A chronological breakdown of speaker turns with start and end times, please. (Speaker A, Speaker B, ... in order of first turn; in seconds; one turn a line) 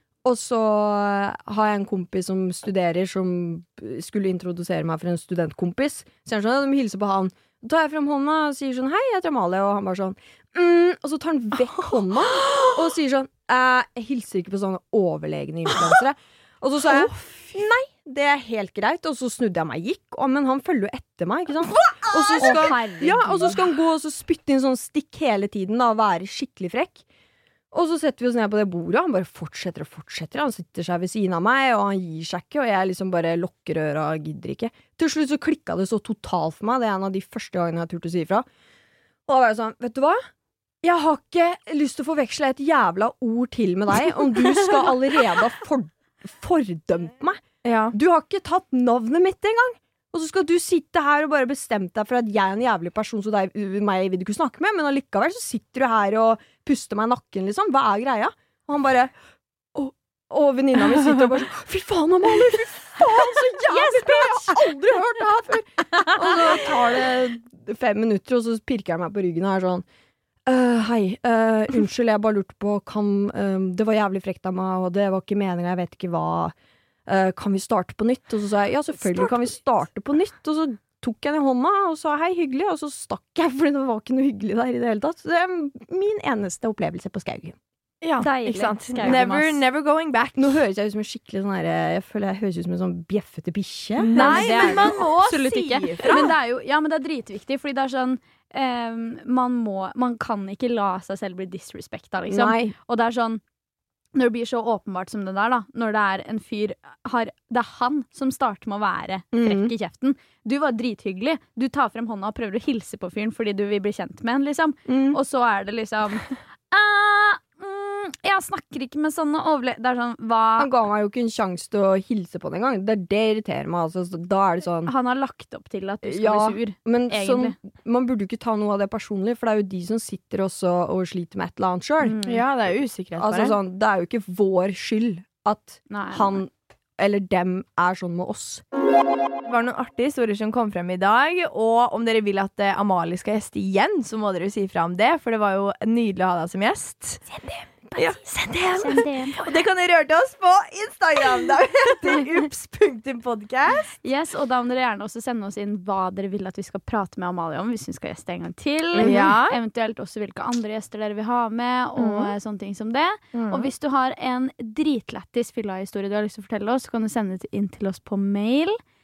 Speaker A: 0.2-27.0
Speaker B: 11.8-12.8
Speaker B: 16.9-17.5
Speaker C: 22.4-23.6
Speaker A: 27.7-38.4
Speaker A: 39.2-40.2
Speaker A: 40.8-59.1
Speaker B: 47.6-47.9
Speaker A: 59.7-69.8
Speaker C: 63.8-64.3
Speaker A: 70.5-76.5
Speaker A: 77.0-87.5
Speaker B: 88.0-90.5
Speaker C: 88.2-89.6
Speaker A: 89.0-89.4
Speaker A: 90.3-94.9
Speaker B: 94.0-96.3
Speaker C: 94.1-103.4
Speaker A: 102.3-102.7
Speaker C: 104.1-120.7
Speaker A: 109.3-109.7
Speaker A: 114.8-115.2
Speaker A: 120.6-124.9
Speaker C: 124.8-127.5
Speaker A: 126.0-132.2
Speaker C: 132.0-132.4
Speaker B: 132.2-133.6
Speaker A: 133.2-138.6
Speaker C: 135.9-136.4
Speaker B: 139.4-147.2
Speaker A: 147.4-148.0
Speaker B: 147.9-154.0
Speaker C: 148.8-149.5
Speaker C: 154.0-168.8
Speaker A: 158.9-159.3
Speaker B: 159.0-159.6
Speaker B: 162.0-162.3
Speaker B: 163.3-163.7